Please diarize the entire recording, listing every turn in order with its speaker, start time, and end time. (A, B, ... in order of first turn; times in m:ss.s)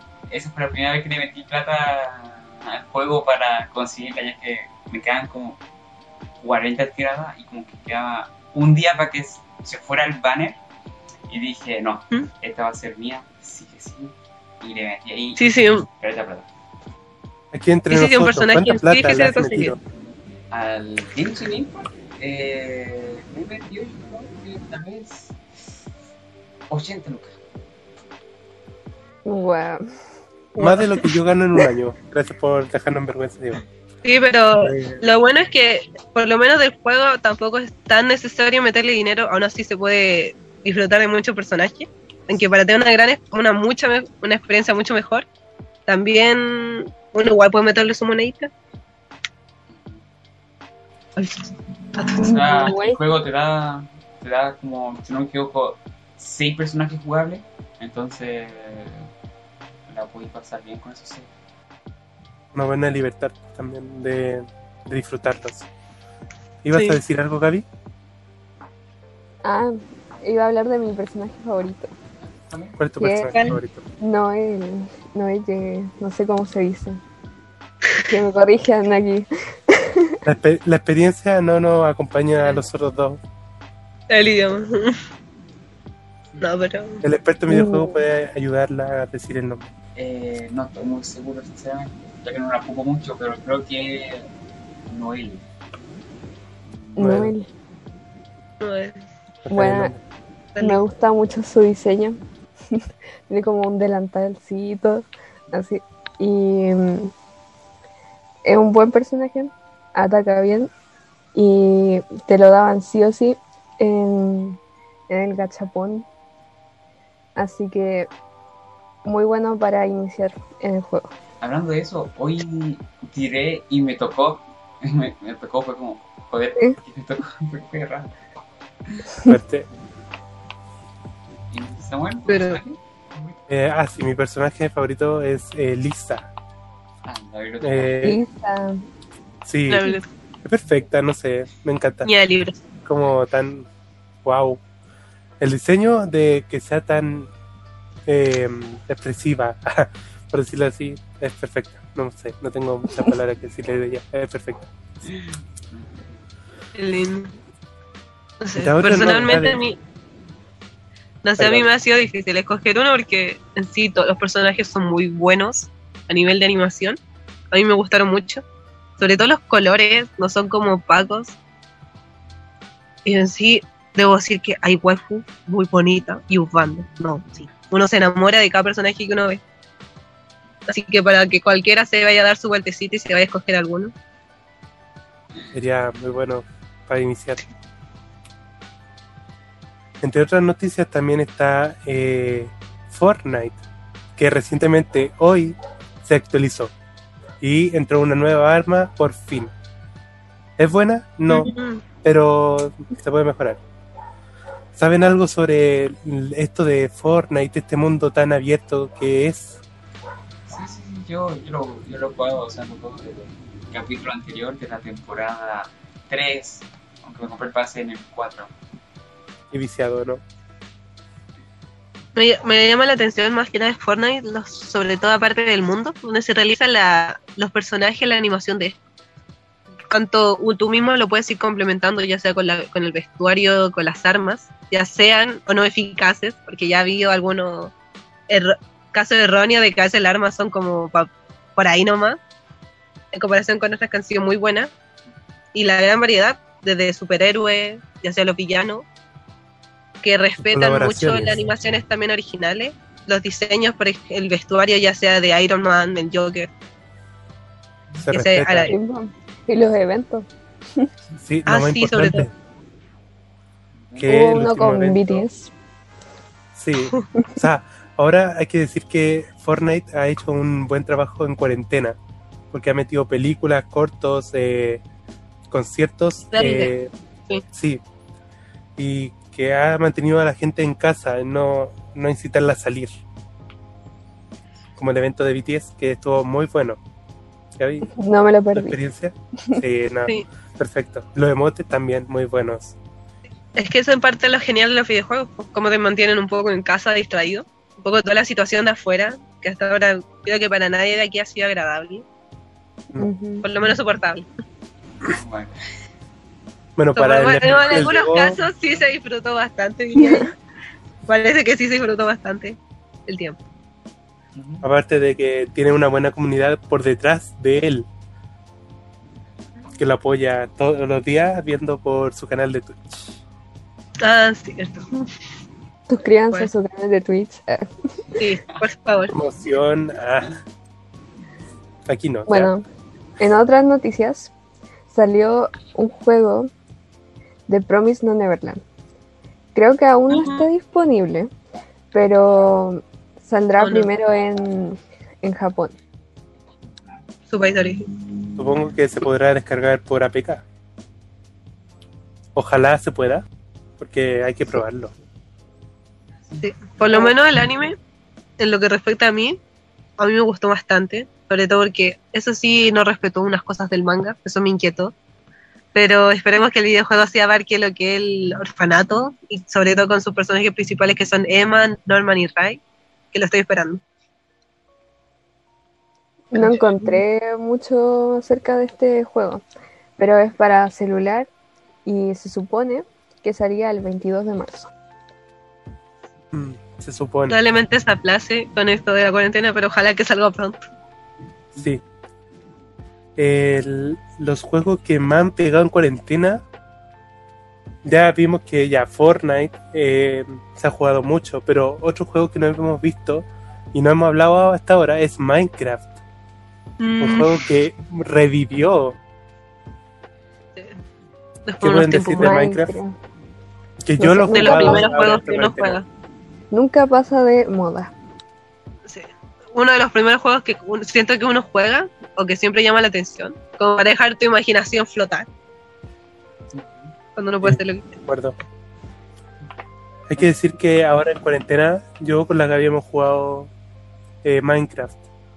0:00.3-0:05.6 A
0:06.4-0:10.6 A
0:11.3-0:16.5 A
0:15.4-0:15.9 B
0:17.5-0:19.8 C
0:17.9-0:19.7 B
0:20.5-0:25.4 A
0:26.7-0:27.4 A
0:29.2-0:29.9 D
0:30.6-0:31.0 B
0:30.6-0:33.6 C
0:34.0-0:45.3 B
0:34.6-0:35.0 C
0:45.9-0:48.5 B
0:49.7-0:50.0 A
0:51.2-0:52.7 B
0:52.1-0:59.1 A
0:52.2-0:53.0 D
0:59.9-1:01.3 A
1:02.5-1:05.7 C
1:06.6-1:07.6 C
1:06.7-1:07.0 B
1:09.4-1:11.9 D
1:12.2-1:12.8 A
1:12.8-1:13.8 C
1:13.0-1:13.3 D
1:14.0-1:17.0 D
1:18.1-1:20.2 D
1:20.2-1:23.2 C
1:24.1-1:25.0 B
1:26.4-1:27.0 B
1:27.0-1:29.7 C
1:27.5-1:28.0 D
1:30.0-1:34.3 A
1:34.9-1:35.4 A
1:36.7-1:37.1 A
1:37.0-1:37.5 D
1:37.0-1:37.3 C
1:38.6-1:39.0 B
1:39.4-1:40.0 C
1:39.5-1:39.9 D
1:40.6-1:42.2 D
1:42.7-1:47.1 D
1:48.4-1:50.7 D
1:51.4-1:54.6 D
1:55.1-1:56.1 D
1:57.4-1:58.1 D
1:59.0-2:01.1 D
2:01.4-2:08.1 A
2:09.3-2:09.7 C
2:11.5-2:13.4 A
2:12.3-2:12.6 B
2:13.5-2:16.3 C
2:17.0-2:18.1 A
2:17.6-2:18.2 C
2:18.0-2:18.9 D
2:19.4-2:19.9 C
2:19.7-2:20.1 B
2:20.4-2:22.1 C
2:22.0-2:22.6 B
2:22.8-2:23.7 C
2:24.2-2:24.6 C
2:25.4-2:27.3 C
2:28.1-2:34.6 C
2:35.0-2:36.1 A
2:36.8-2:37.4 B
2:38.4-2:39.8 B
2:38.6-2:39.6 C
2:41.2-2:47.0 B
2:41.4-2:41.7 C
2:47.5-2:48.4 B
2:49.0-2:51.4 B
2:53.0-2:59.4 B
3:00.7-3:03.9 B
3:05.5-3:07.4 C
3:10.0-3:13.6 C
3:14.2-3:16.7 C
3:17.4-3:19.5 C
3:20.6-3:21.5 C
3:21.3-3:21.8 B
3:22.0-3:23.6 C
3:24.8-3:29.6 C
3:30.5-3:38.5 A
3:39.5-3:40.2 C
3:42.2-3:48.8 B
3:49.9-3:57.7 B
3:58.3-4:02.2 B
4:03.1-4:04.7 B
4:05.5-4:08.8 B
4:10.0-4:16.5 B
4:10.5-4:11.4 C
4:18.0-4:18.8 C
4:18.1-4:18.8 B
4:18.7-4:20.9 D
4:21.2-4:22.3 C
4:21.5-4:22.3 B
4:23.8-4:24.2 A
4:24.0-4:25.3 C
4:24.0-4:25.5 D
4:26.6-4:32.0 C
4:32.5-4:34.8 C
4:35.5-4:36.9 C
4:36.3-4:36.7 B
4:37.5-4:37.8 C
4:38.8-4:42.9 C
4:44.8-4:46.8 C
4:47.6-4:47.9 C
4:47.9-4:48.8 D
4:48.5-4:52.8 C
4:53.6-5:02.0 B
5:03.0-5:03.5 D
5:03.4-5:04.3 B
5:05.1-5:05.6 A
5:06.8-5:08.4 C
5:07.0-5:10.3 B
5:07.5-5:08.0 A
5:11.1-5:13.4 B
5:14.4-5:14.6 A
5:14.6-5:17.9 C
5:19.5-5:19.8 A
5:19.8-5:23.2 C
5:24.0-5:25.1 B
5:25.9-5:27.9 D
5:28.1-5:28.6 A
5:28.2-5:29.1 B
5:29.1-5:30.4 C
5:31.9-5:32.5 C
5:32.3-5:32.6 D
5:33.2-5:34.3 D
5:34.9-5:36.5 D
5:37.5-5:38.6 D
5:39.6-5:41.3 D
5:40.1-5:40.5 B
5:41.9-5:45.8 D
5:43.6-5:43.9 B
5:47.3-5:47.9 B
5:48.4-5:50.4 C
5:52.4-5:53.3 C
5:53.8-5:54.9 C
5:56.4-5:57.8 B
5:58.4-5:59.4 B
6:00.0-6:04.9 B
6:05.8-6:12.6 B
6:13.1-6:13.8 B
6:16.3-6:19.4 D
6:16.4-6:17.0 B
6:20.0-6:21.3 D
6:21.9-6:24.7 D
6:26.3-6:27.4 C
6:27.3-6:30.6 B
6:31.6-6:31.8 C
6:33.2-6:36.4 C
6:37.8-6:46.0 C
6:46.8-6:47.4 B
6:47.0-6:49.0 C
6:51.5-6:52.4 B
6:51.6-6:52.8 C
6:52.2-6:53.0 D
6:53.8-6:55.8 C
6:54.0-6:54.9 D
6:54.3-6:55.9 B
6:56.5-6:57.9 D
6:58.9-7:05.3 B
7:06.5-7:06.9 A
7:07.2-7:07.9 B
7:07.4-7:08.4 C
7:10.1-7:13.5 C
7:14.2-7:15.0 C